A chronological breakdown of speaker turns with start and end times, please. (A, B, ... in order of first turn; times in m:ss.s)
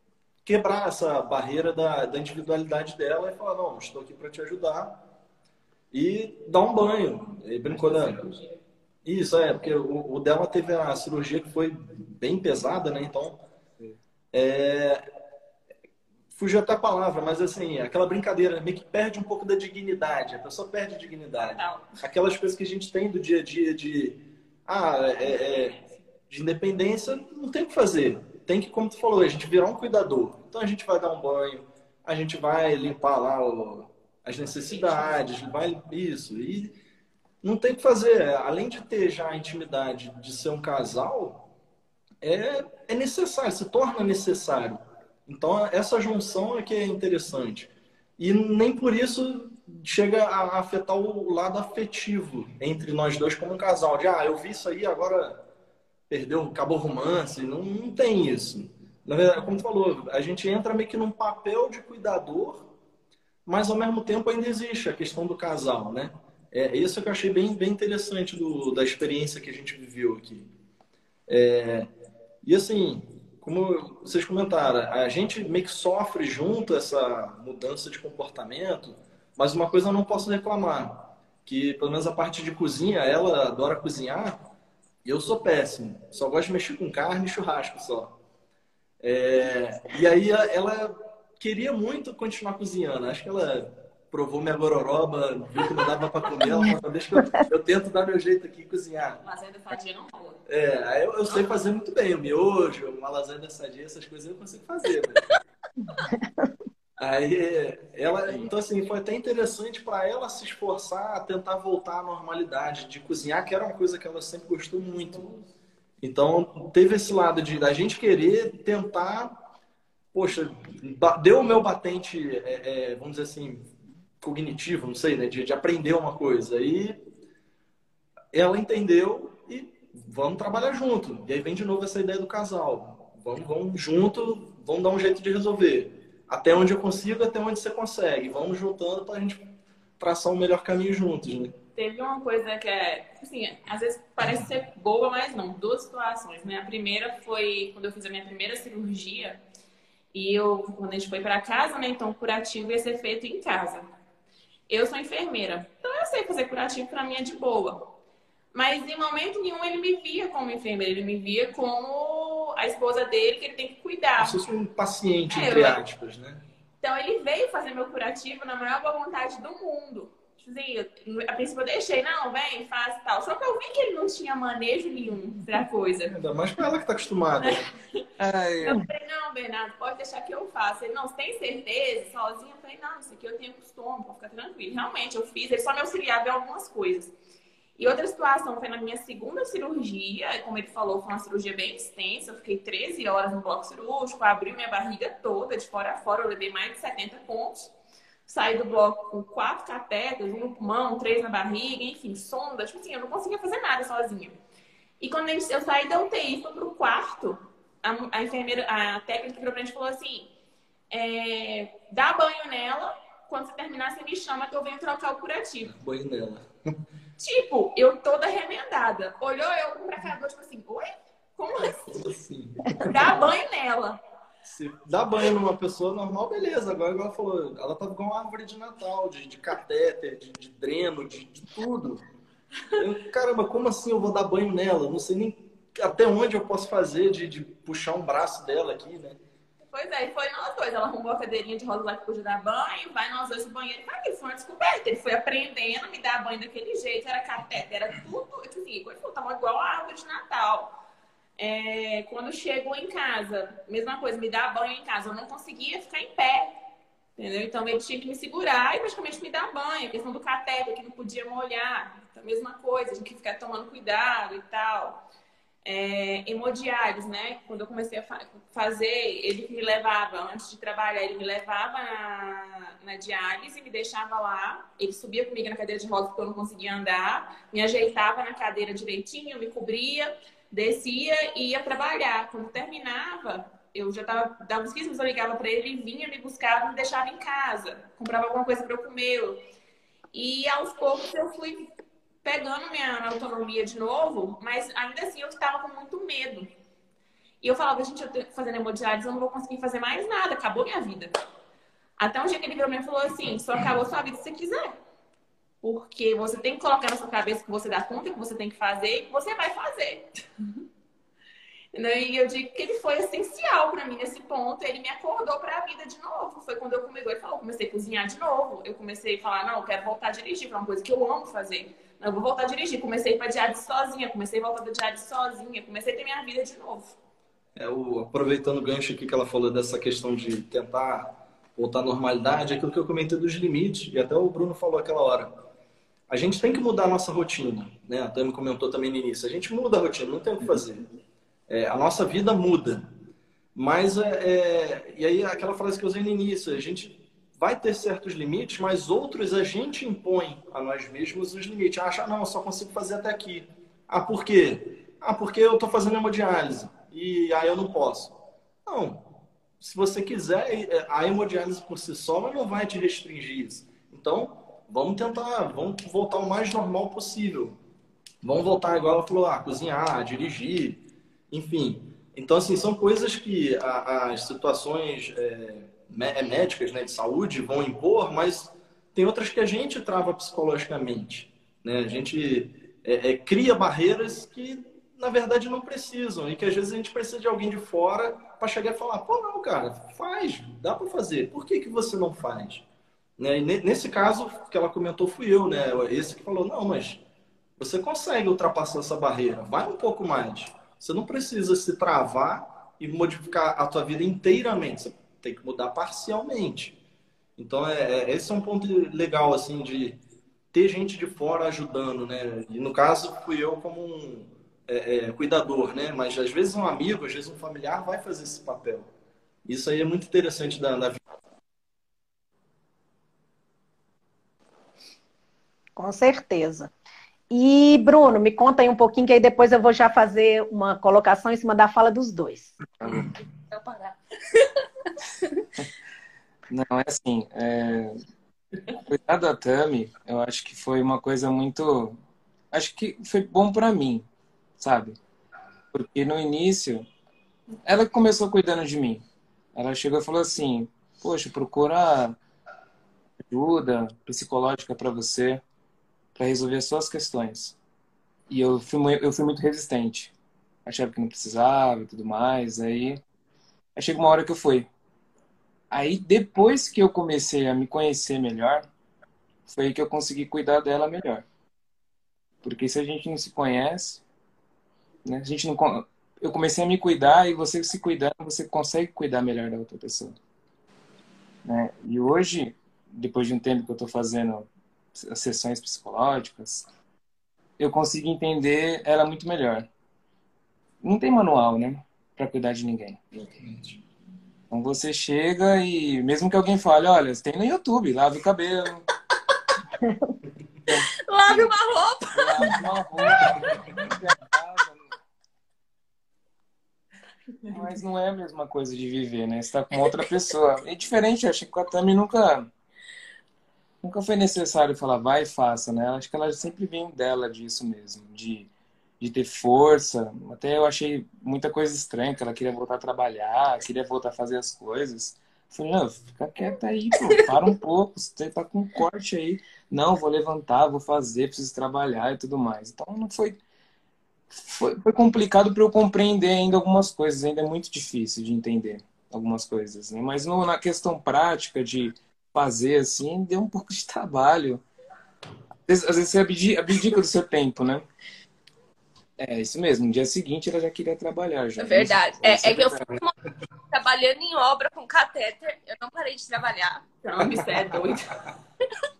0:00.4-0:05.0 A
0:05.9-0:08.3 A
0:09.0-0:13.4 A
0:14.3-0:15.0 A
0:16.4-0:36.8 A
0:21.3-0:22.0 B
0:25.3-0:25.8 B
0:34.7-0:35.2 B
0:37.4-0:41.5 A
0:42.2-0:55.4 A
0:56.1-1:02.7 A
1:03.5-1:10.5 A
1:11.3-1:11.9 A
1:12.4-1:24.4 A
1:25.0-1:28.1 A
1:29.0-1:39.2 A
1:36.5-1:37.4 C
1:39.2-1:40.4 B
1:40.5-1:45.2 A
1:45.9-1:46.5 C
1:47.0-1:55.3 A
1:56.0-1:59.4 A
2:00.1-2:03.7 A
2:04.2-2:07.0 A
2:08.3-2:19.4 A
2:20.0-2:21.6 A
2:21.8-2:29.4 B
2:30.1-2:33.8 B
2:34.7-2:37.9 B
2:38.5-2:44.4 B
2:44.2-2:46.4 A
2:45.3-2:45.8 B
2:46.8-2:56.2 B
2:56.1-2:57.7 A
2:58.2-2:58.8 D
2:58.6-3:07.1 B
3:07.8-3:17.7 B
3:18.3-3:24.4 B
3:25.0-3:30.3 B
3:30.9-3:35.7 B
3:35.7-3:36.5 A
3:37.2-3:42.0 B
3:41.9-3:43.2 A
3:42.8-3:44.0 B
3:44.4-3:52.0 A
3:52.8-3:59.2 A
3:59.6-4:10.8 B
4:11.4-4:16.5 B
4:17.2-4:25.0 B
4:25.6-4:49.4 B
4:50.1-4:51.7 B
4:52.2-4:56.5 B
4:57.4-5:01.1 B
5:02.0-5:04.8 B
5:05.6-5:10.1 B
5:11.7-5:27.0 B
5:27.6-5:35.3 A
5:36.1-5:40.8 A
5:41.5-5:42.9 A
5:43.6-5:59.0 A
5:59.6-6:07.6 A
6:08.2-6:32.6 A
6:33.2-6:37.0 A
6:37.6-6:46.8 A
6:47.4-6:50.0 A
6:50.5-6:58.9 A
6:59.5-7:01.0 A
7:05.8-7:06.7 C
7:07.3-7:12.5 C
7:13.5-7:14.5 E
7:16.5-7:18.0 D
7:18.9-7:22.0 D
7:22.5-7:24.1 D
7:24.6-7:25.0 D
7:25.7-7:26.9 D
7:27.7-7:29.0 D
7:29.6-7:32.2 D
7:33.3-7:35.4 D
7:36.2-7:37.6 D
7:38.3-7:40.1 D
7:40.6-7:43.0 D
7:43.8-7:44.7 D
7:45.7-7:48.7 D
7:49.5-7:51.2 D
7:52.4-7:54.0 D
7:55.0-8:00.2 D
8:01.4-8:06.7 D
8:07.6-8:09.7 D
8:10.8-8:13.0 D
8:13.2-8:13.8 A
8:14.5-8:18.8 D
8:19.8-8:20.1 C
8:20.7-8:21.5 D
8:20.7-8:22.6 E
8:22.1-8:24.8 D
8:23.2-8:23.5 A
8:27.5-8:32.5 D
8:33.8-8:53.4 D
8:54.3-9:04.6 D
9:05.7-9:07.8 D
9:09.2-9:12.9 D
9:11.6-9:13.1 E
9:13.7-9:16.8 E
9:17.0-9:18.2 B